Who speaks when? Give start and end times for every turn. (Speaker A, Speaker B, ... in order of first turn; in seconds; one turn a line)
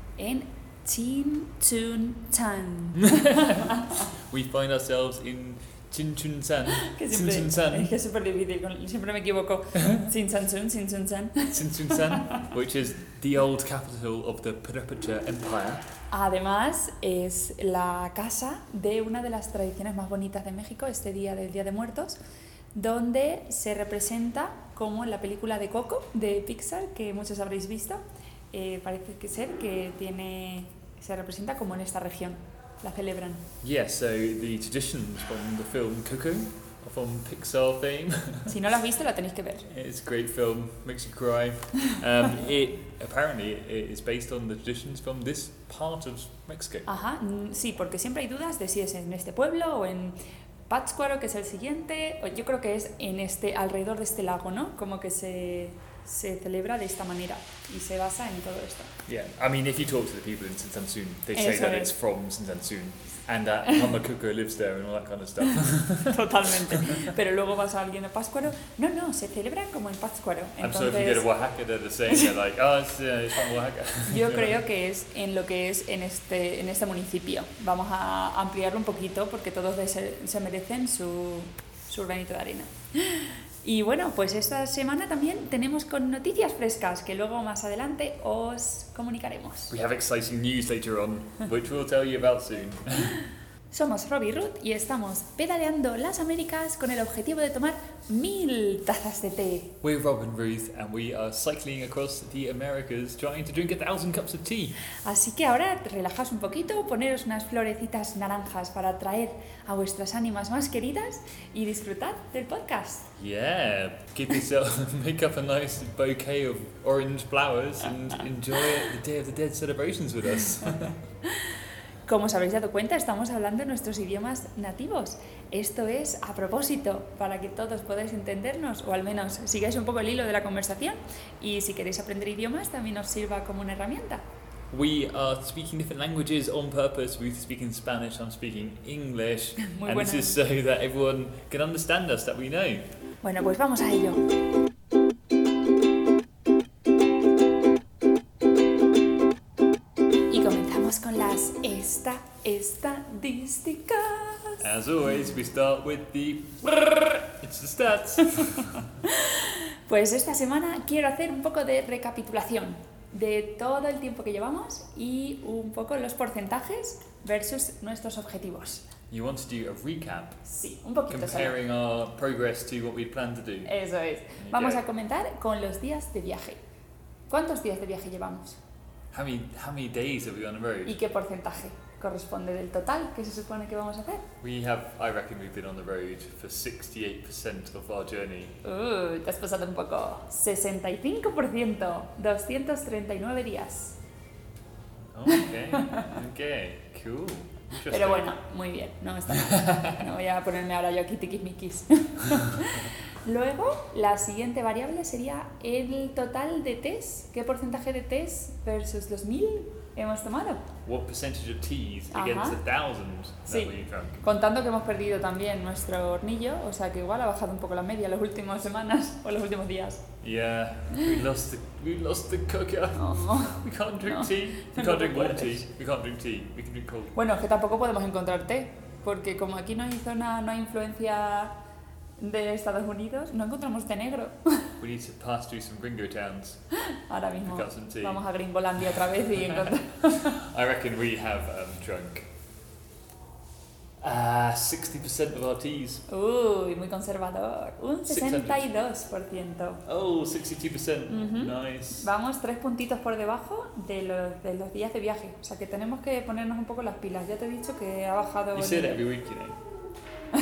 Speaker A: 0.2-3.2
Speaker B: 4.3-7.9
Speaker A: 6.9-11.6
Speaker B: 11.5-15.8
Speaker A: 16.1-22.2
Speaker A: 22.7-28.0
Speaker A: 28.5-33.4
Speaker B: 33.6-38.5
Speaker A: 38.5-39.7
Speaker B: 39.7-46.9
Speaker A: 46.9-50.2
Speaker A: 50.7-58.9
Speaker B: 59.0-66.2
Speaker A: 61.4-61.9
Speaker A: 66.0-71.3
Speaker B: 70.6-74.6
Speaker A: 74.1-89.7
Speaker B: 89.7-93.2
Speaker A: 93.7-99.7
Speaker B: 99.8-104.8
Speaker A: 105.0-113.0
Speaker B: 113.2-121.0
Speaker A: 122.0-134.2
Speaker B: 134.7-142.9
Speaker A: 139.7-140.3
Speaker A: 143.2-144.2
Speaker A: 150.3-154.6
Speaker B: 154.6-158.8
Speaker A: 159.3-168.9
Speaker B: 169.1-170.4
Speaker A: 170.4-171.6
Speaker B: 171.1-173.7
Speaker A: 173.7-176.6
Speaker B: 174.4-174.8
Speaker A: 177.3-178.6
Speaker B: 179.1-180.9
Speaker A: 180.8-184.2
Speaker B: 184.4-188.6
Speaker A: 188.6-193.9
Speaker B: 195.1-198.3
Speaker A: 197.9-210.6
Speaker B: 199.5-199.9
Speaker B: 210.8-214.2
Speaker A: 212.1-212.6
Speaker A: 213.5-220.0
Speaker B: 220.2-227.2
Speaker A: 223.0-225.6
Speaker A: 227.1-231.5
Speaker A: 232.2-234.7
Speaker B: 234.8-236.7
Speaker A: 237.1-240.3
Speaker B: 237.4-238.2
Speaker B: 240.3-242.3
Speaker B: 244.0-246.0
Speaker A: 246.1-249.8
Speaker B: 248.1-248.7
Speaker B: 249.8-252.1
Speaker A: 251.1-259.0
Speaker B: 258.5-259.6